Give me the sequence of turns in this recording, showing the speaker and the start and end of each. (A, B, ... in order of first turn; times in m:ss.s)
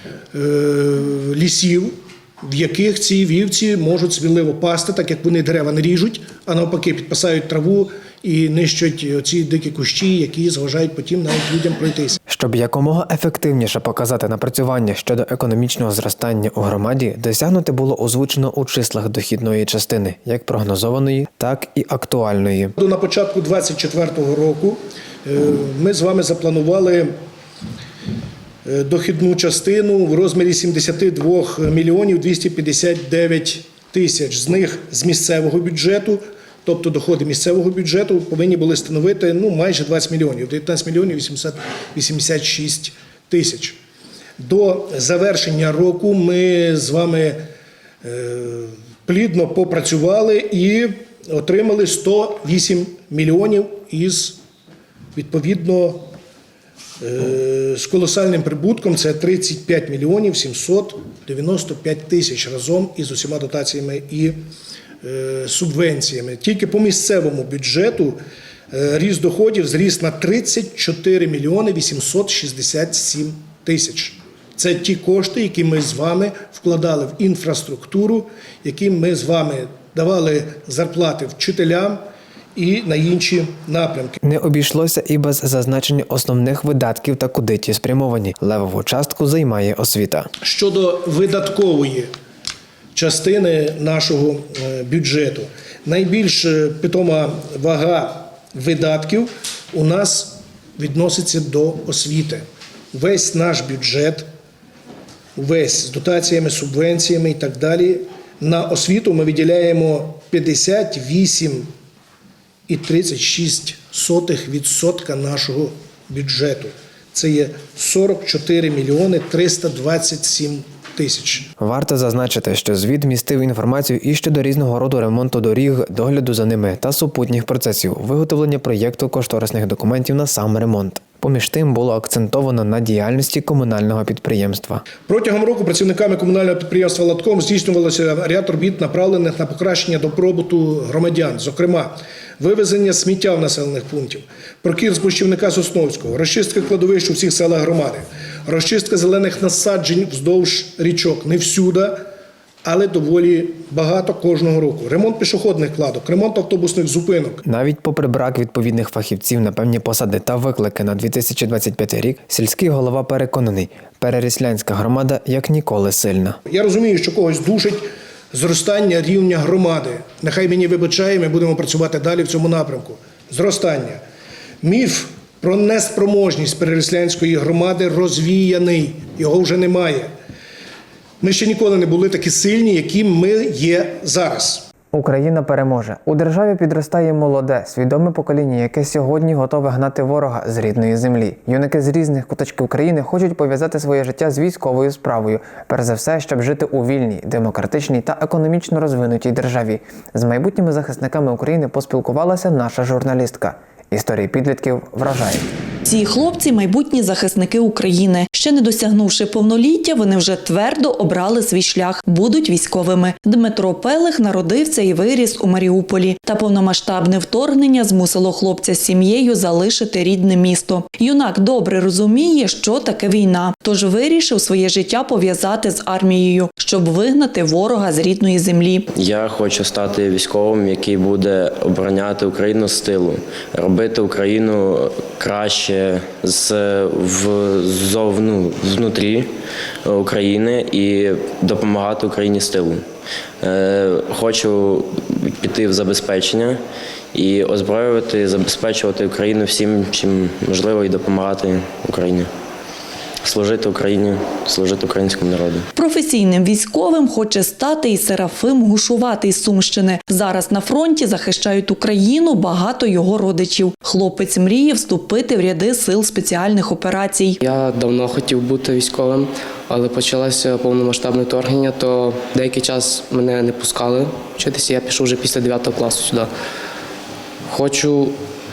0:00.3-0:12.2 A
0:12.3-0:22.7 B
0:22.8-0:27.1 A
0:28.6-0:43.8 A
0:44.4-0:47.4 A
0:48.0-0:54.4 A
0:55.1-0:56.1 A
0:57.0-1:04.4 A
1:05.0-1:08.2 A
1:08.7-1:22.0 A
1:22.6-1:24.1 A
1:24.2-1:30.3 B
1:30.4-1:32.1 A
1:32.9-1:44.3 A
1:45.4-1:51.7 A
1:52.7-2:01.5 A
2:01.6-2:14.8 B
2:15.1-2:32.1 A
2:32.6-2:37.4 A
2:37.4-2:46.4 B
2:46.5-2:54.0 A
2:54.6-3:00.1 A
3:01.2-3:04.7 A
3:04.9-3:25.5 B
3:25.8-3:48.8 C
3:48.9-3:59.3 D
3:59.8-4:02.8 D
4:03.4-4:06.6 D
4:07.1-4:12.3 D
4:13.2-4:15.6 D
4:15.7-4:27.4 C
4:27.4-4:36.3 E
4:37.5-4:38.2 E